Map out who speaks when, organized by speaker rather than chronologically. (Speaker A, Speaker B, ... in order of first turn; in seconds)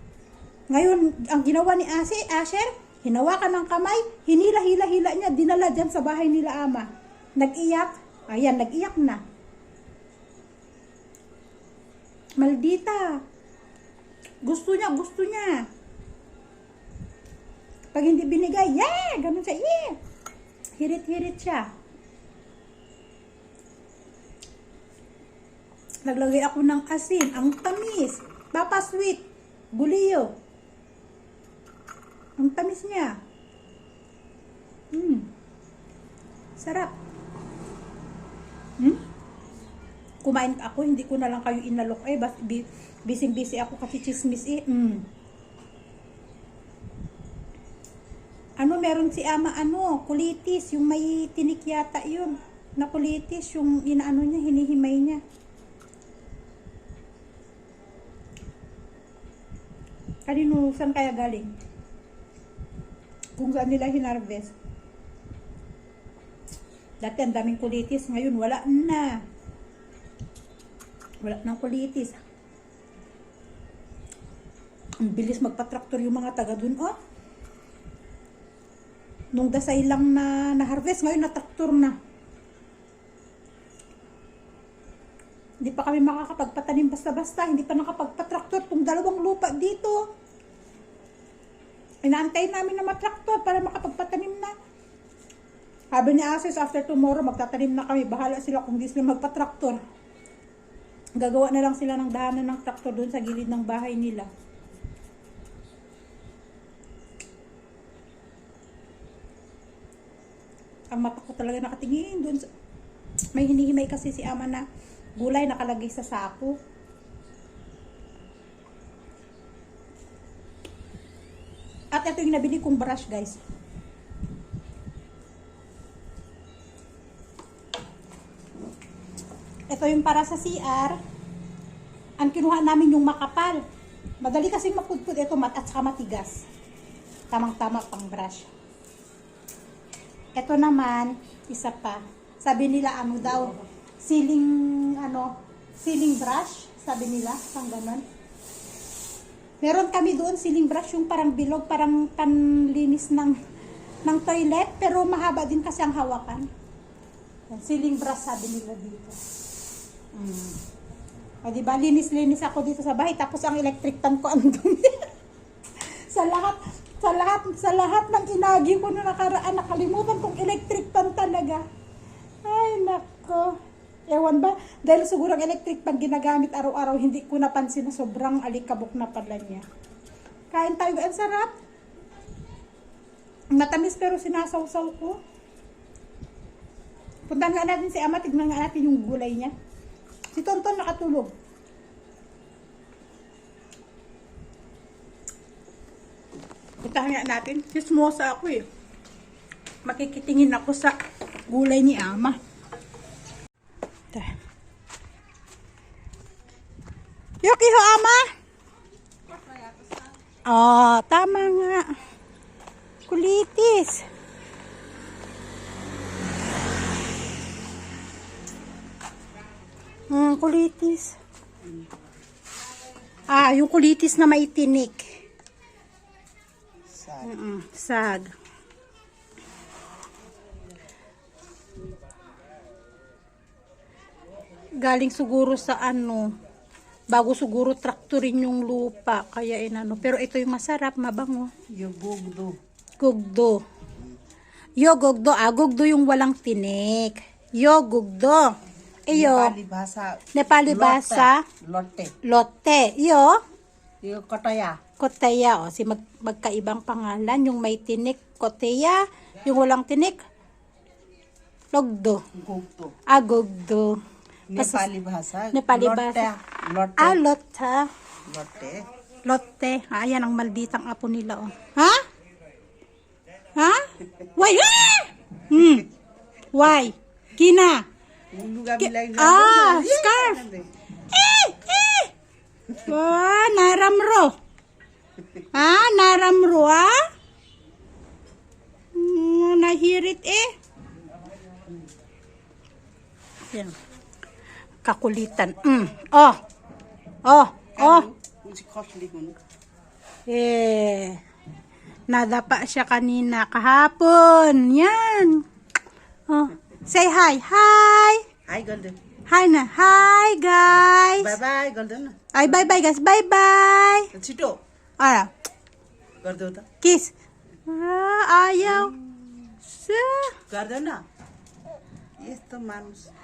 Speaker A: 0.7-9.2, 12.4-13.2, 14.4-15.7, 17.9-20.0, 20.8-21.7, 26.0-29.2, 29.7-30.3, 32.4-33.1, 34.9-35.3, 36.6-36.9, 40.2-45.1, 48.6-55.2, 60.2-61.5, 63.4-64.5, 67.0-69.2, 71.2-72.2, 75.0-76.9, 79.3-81.9, 85.6-90.0, 92.0-94.5, 95.9-99.8, 101.2-104.3, 110.9-112.5, 113.3-114.6, 115.2-116.5, 121.9-123.4, 129.7-131.0, 132.2-133.6, 134.2-136.4, 137.3-138.5, 140.3-148.0, 149.6-153.4, 154.0-156.5, 157.5-159.2, 160.1-160.6, 161.4-165.1, 165.8-171.6, 172.4-173.5, 174.1-179.6, 180.5-181.5, 183.5-185.2, 187.3-189.5, 190.3-191.3, 196.8-198.7, 199.8-200.9, 201.5-202.4, 207.4-208.2, 210.5-211.8, 213.1-214.1, 220.1-221.2, 223.3-225.1, 227.2-228.3, 234.8-236.3, 237.1-241.5, 243.0-243.6, 244.8-248.5, 249.1-249.5, 250.3-251.4, 252.2-253.4, 255.0-260.2, 261.7-262.2, 263.1-264.0, 264.6-264.9, 265.5-266.3, 267.0-267.9, 269.2-272.0, 273.6-275.9, 276.5-277.8, 278.8-280.4, 281.1-282.1, 282.7-284.3, 285.5-287.1, 288.9-290.5, 293.5-293.8, 294.8-296.4, 297.2-298.1, 300.3-301.2, 302.1-305.4, 306.3-308.2, 309.3-311.4, 312.3-314.1, 315.0-315.3, 316.8-317.1, 317.6-318.9, 319.7-320.4
Speaker B: 226.9-227.3, 241.7-242.6, 249.1-252.1, 254.0-254.8, 262.3-262.9, 264.5-267.2, 268.3-268.9, 278.3-280.7, 297.8-299.4, 308.5-309.0, 311.2-312.2, 314.1-314.6, 316.2-316.6, 320.5-321.0, 322.2-323.1